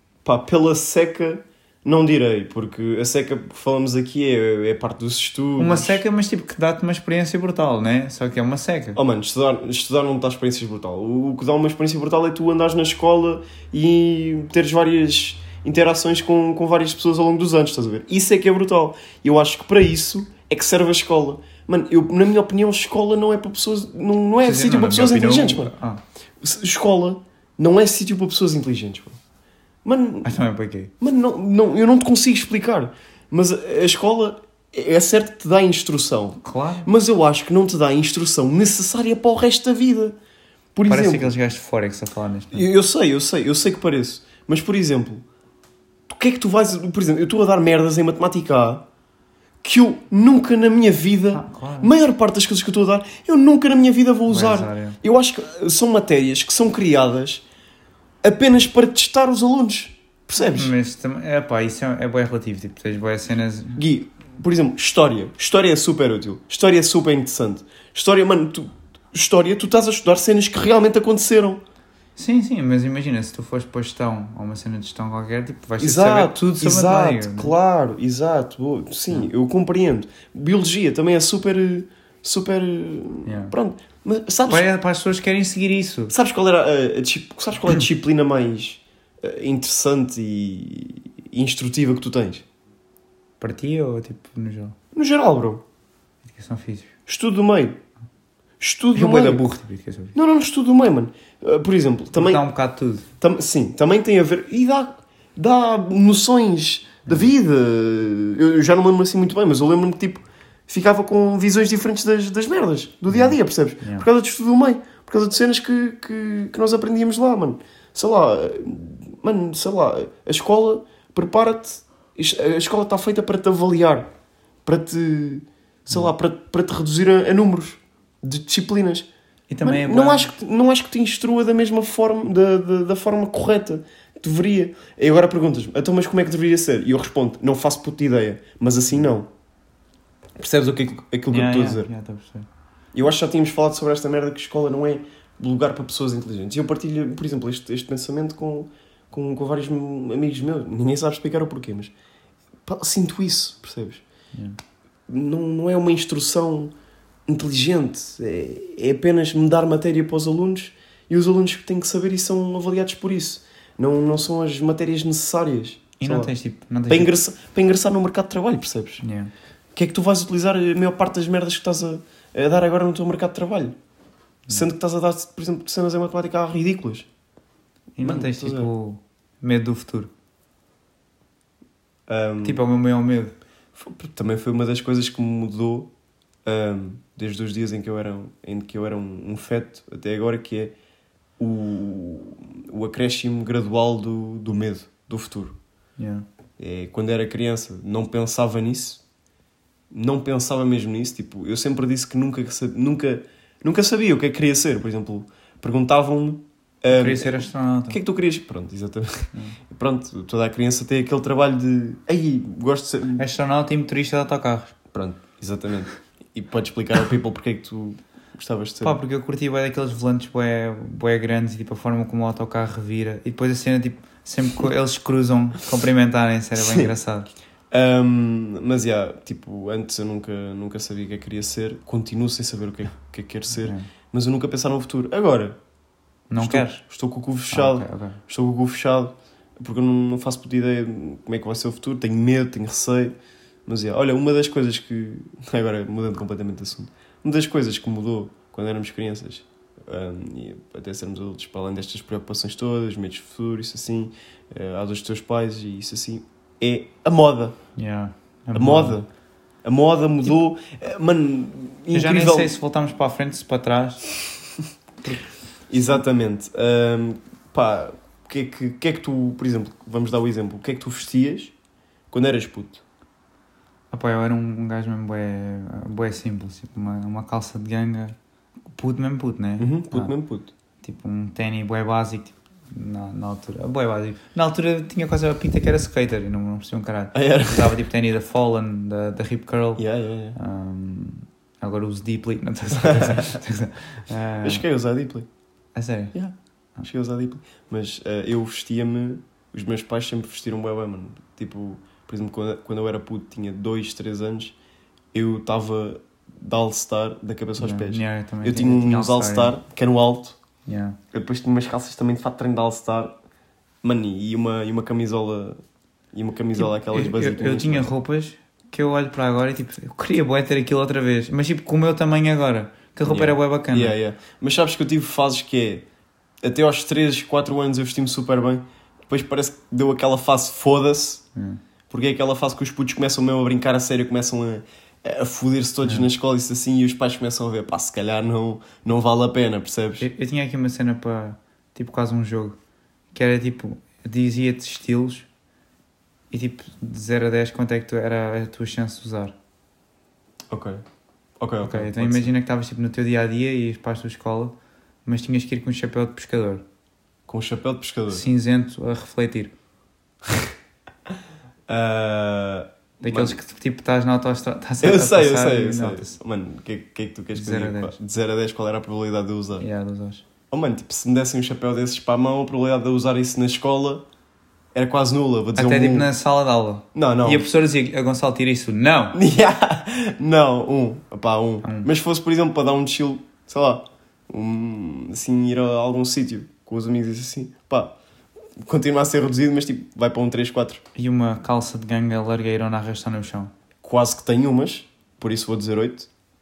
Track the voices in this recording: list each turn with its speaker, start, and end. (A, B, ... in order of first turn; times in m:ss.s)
0:00.2-0:06.0 A
0:05.6-0:09.0 B
0:08.9-0:25.7 A
0:24.4-0:26.0 B
0:26.4-0:29.2 A
0:29.8-0:30.3 A
0:30.2-0:30.9 B
0:31.0-0:40.2 A
0:36.4-0:36.9 B
0:40.7-0:41.3 A
0:40.9-0:42.6 B
0:42.5-0:45.2 A
0:46.1-0:48.8 A
0:49.6-0:57.4 A
0:51.3-0:51.9 B
0:54.3-0:55.0 B
0:58.2-1:00.7 A
1:00.4-1:03.8 B
1:03.8-1:11.6 A
1:12.2-1:17.5 B
1:15.8-1:24.7 A
1:23.2-1:23.5 B
1:24.5-1:26.1 B
1:26.1-1:32.4 A
1:33.4-1:34.8 B
1:34.9-1:35.6 A
1:36.3-1:36.9 B
1:37.1-1:37.8 A
1:38.6-1:39.5 A
1:38.9-1:40.1 B
1:40.1-1:42.4 A
1:42.1-1:43.0 B
1:43.2-2:04.1 A
1:53.1-1:54.0 B
2:04.6-2:09.1 A
2:09.5-2:10.3 B
2:09.6-2:19.3 A
2:20.4-2:21.9 A
2:21.3-2:22.4 B
2:22.9-2:31.9 A
2:32.6-2:34.0 A
2:35.1-2:36.7 A
2:37.3-2:46.3 A
2:46.0-2:47.1 B
2:46.9-2:49.0 A
2:49.0-2:49.3 B
2:49.7-2:53.8 A
2:54.5-2:57.1 A
2:58.0-3:00.1 B
2:58.0-2:58.7 A
3:02.1-3:02.6 A
3:02.4-3:03.3 B
3:03.8-3:05.9 A
3:06.4-3:10.8 A
3:11.4-3:15.6 A
3:16.0-3:16.2 B
3:16.6-3:19.0 A
3:19.9-3:33.2 A
3:26.9-3:28.0 B
3:33.2-3:34.7 B
3:34.9-3:39.0 A
3:38.8-3:47.3 B
3:46.6-3:46.9 A
3:47.7-3:55.6 A
3:53.6-3:53.9 B
3:56.3-3:56.8 B
3:56.4-4:03.1 A
3:57.5-3:58.2 B
4:03.6-4:17.6 A
4:17.8-4:19.0 B
4:18.5-4:19.1 A
4:19.6-4:22.5 A
4:21.9-4:24.2 B
4:25.0-4:25.3 B
4:25.7-4:31.5 A
4:32.1-4:32.8 A
4:33.9-4:38.2 B
4:38.7-4:40.1 B
4:39.6-4:40.5 A
4:40.8-4:54.6 B
4:47.1-4:47.8 A
4:49.8-4:50.4 A
4:52.8-4:53.3 A
4:54.4-4:55.3 A
4:55.7-4:56.1 B
4:56.1-5:04.5 A
5:05.1-5:10.4 A
5:07.6-5:09.6 B
5:10.6-5:11.0 B
5:11.1-5:13.2 A
5:13.8-5:17.9 A
5:16.6-5:23.9 B
5:23.0-5:25.9 A
5:26.4-5:31.3 A
5:31.3-5:31.6 B
5:31.9-5:40.1 A
5:40.0-5:42.6 B
5:43.1-5:45.3 B
5:46.3-5:49.3 B
5:50.5-5:50.8 A
5:51.4-5:52.3 A
5:51.6-5:56.6 B
5:57.3-5:58.2 A
5:58.1-5:59.5 B
6:01.7-6:03.4 A
6:03.0-6:06.2 B
6:04.8-6:09.6 A
6:07.3-6:08.0 B
6:09.6-6:10.2 B
6:10.5-6:14.0 A
6:14.7-6:16.1 A
6:15.6-6:19.2 B
6:16.9-6:17.5 A
6:19.1-6:28.0 A
6:21.6-6:21.9 B
6:28.6-6:30.8 A
6:30.9-6:33.5 B
6:33.8-6:36.1 A